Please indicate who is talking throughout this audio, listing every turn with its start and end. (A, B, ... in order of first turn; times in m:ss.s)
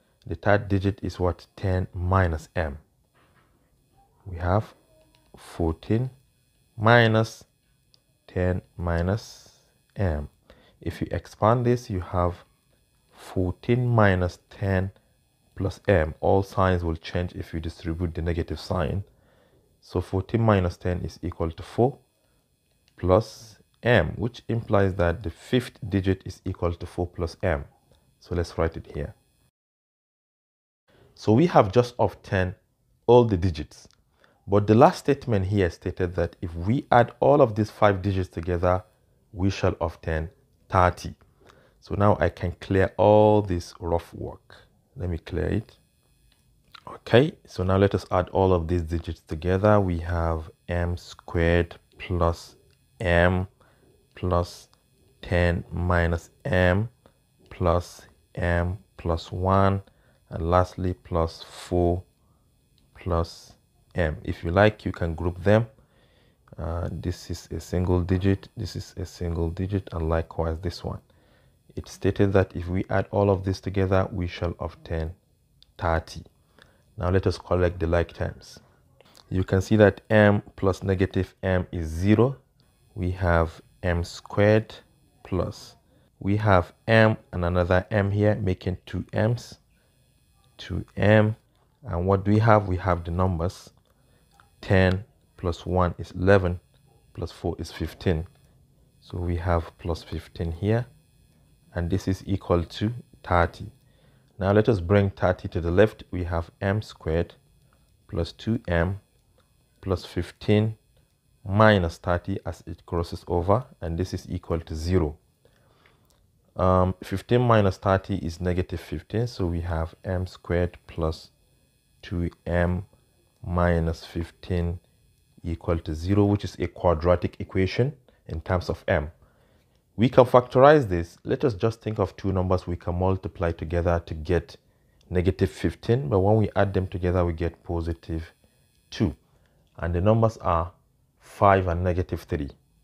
0:00.2-0:02.8 A
0:04.2-0:04.8 A
0:05.3-0:06.1 A
0:06.8-0:07.5 A
0:08.2-0:10.3 A
0:10.8-0:12.4 A
0:13.1-0:14.9 A
0:15.6-0:19.0 A
0:19.8-0:22.0 A
0:23.0-0:27.7 A
0:28.2-0:29.1 A
0:31.2-0:33.9 A
0:34.5-0:41.2 A
0:41.8-0:45.8 A
0:46.9-0:53.5 A
0:54.1-0:54.7 A
0:55.2-0:56.9 A
0:57.5-1:02.0 A
1:02.9-1:05.7 A
1:06.6-1:11.0 A
1:11.7-1:15.2 A
1:15.8-1:16.2 A
1:17.0-1:18.6 A
1:19.3-1:22.4 A
1:22.9-1:29.6 A
1:30.6-1:33.7 A
1:34.6-1:36.6 A
1:37.1-1:38.3 A
1:39.0-1:40.9 A
1:41.7-1:43.7 A
1:44.4-1:47.4 A
1:48.1-1:49.0 A
1:49.8-1:50.8 A
1:51.4-1:55.2 A
1:56.6-2:01.3 A
2:02.0-2:02.9 A
2:03.4-2:04.8 A
2:05.4-2:09.1 A
2:10.0-2:14.6 A
2:15.1-2:18.3 A
2:18.9-2:19.2 A
2:19.8-2:22.5 A